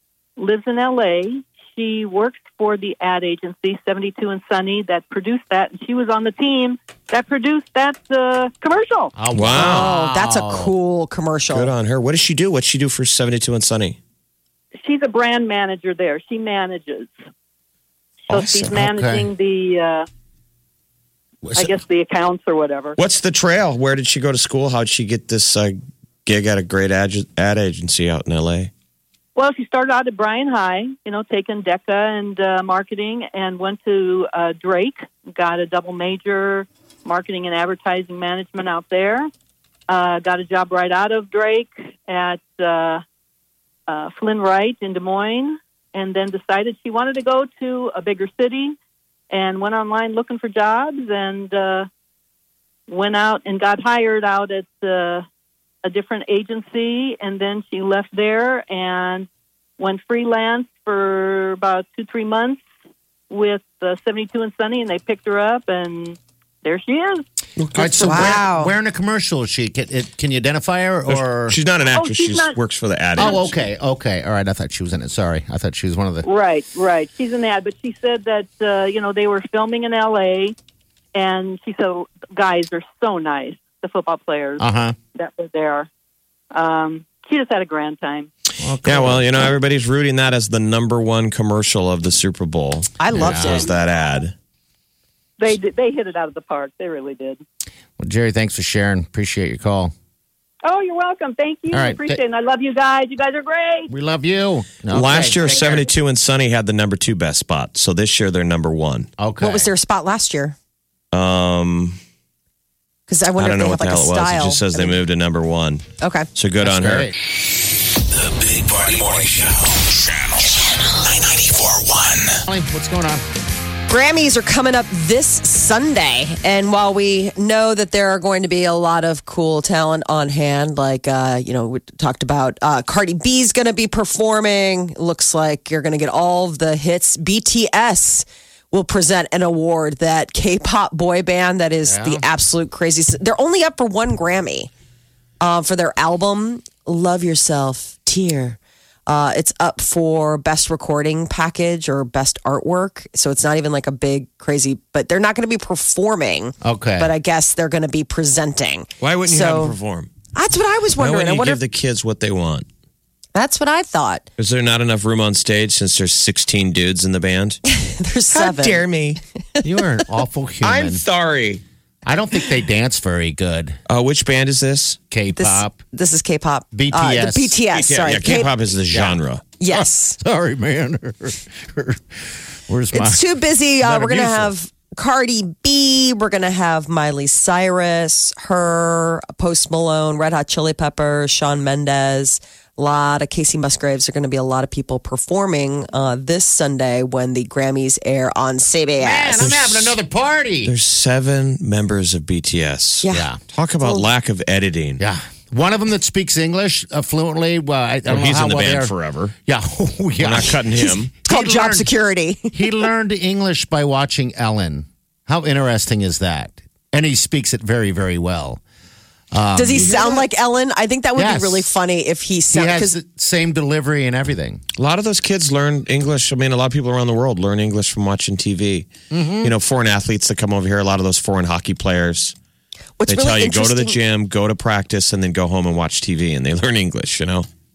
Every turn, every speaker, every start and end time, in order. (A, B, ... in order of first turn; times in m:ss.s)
0:00.4-0:09.1 A
0:09.2-0:10.7 B
0:09.3-0:09.9 C
0:09.5-0:11.7 D
0:11.5-0:14.0 C
0:14.8-0:17.1 A
0:18.3-0:20.1 A
0:18.3-0:19.3 B
0:21.4-0:21.7 B
0:21.5-0:23.0 A
0:23.0-0:28.7 C
0:29.4-0:39.3 A
0:39.9-0:43.0 A
0:43.9-0:48.8 A
0:49.3-0:51.9 A
0:52.9-0:55.2 A
0:55.8-0:59.3 A
0:59.8-1:02.6 A
1:03.3-1:07.2 A
1:07.6-1:08.4 C
1:07.7-1:11.6 B
1:07.9-1:08.7 D
1:11.1-1:13.6 C
1:11.8-1:12.6 A
1:13.2-1:16.3 B
1:16.2-1:20.5 A
1:21.1-1:25.9 A
1:24.6-1:25.0 B
1:26.5-1:28.3 A
1:28.6-1:29.4 B
1:28.8-1:34.3 C
1:33.0-1:33.7 D
1:33.1-1:33.6 B
1:35.4-1:37.4 A
1:38.0-1:39.9 B
1:40.6-1:43.9 A
1:41.7-1:42.2 B
1:43.9-1:45.6 B
1:44.9-1:49.1 C
1:45.4-1:45.9 A
1:49.2-1:49.7 B
1:49.4-1:50.6 D
1:51.1-1:52.0 C
1:53.1-1:55.0 D
1:53.4-1:55.8 C
1:56.0-1:56.3 D
1:56.3-1:57.1 C
1:56.6-1:57.1 B
1:58.0-2:02.4 E
2:02.5-2:03.2 B
2:03.9-2:24.7 D
2:21.8-2:22.2 B
2:25.4-2:39.8 D
2:36.6-2:37.1 B
2:39.0-2:40.1 C
2:40.3-2:41.6 D
2:41.0-2:42.7 C
2:43.3-2:44.2 D
2:44.4-2:47.6 C
2:47.7-2:48.8 D
2:48.3-2:49.2 C
2:49.6-2:51.0 B
2:50.6-2:51.6 C
2:52.0-2:53.8 B
2:53.9-2:55.0 C
2:55.1-2:55.8 B
2:55.4-2:58.5 D
2:56.7-2:57.6 B
2:57.7-2:59.4 C
2:58.9-3:04.5 B
2:59.6-3:00.2 D
3:02.9-3:19.4 D
3:19.0-3:20.7 B
3:19.4-3:20.0 C
3:20.6-3:25.0 C
3:23.0-3:23.3 D
3:23.1-3:23.4 B
3:23.8-3:24.1 D
3:25.0-3:28.9 B
3:28.1-3:29.3 C
3:29.4-3:31.9 B
3:30.2-3:31.1 C
3:31.2-3:32.6 D
3:32.5-3:38.6 B
3:39.3-3:40.2 B
3:39.5-3:43.0 D
3:41.2-3:41.7 B
3:42.5-3:44.6 B
3:44.8-3:48.9 C
3:49.1-3:49.5 B
3:49.4-3:52.3 C
3:53.0-3:54.0 D
3:53.1-3:57.5 C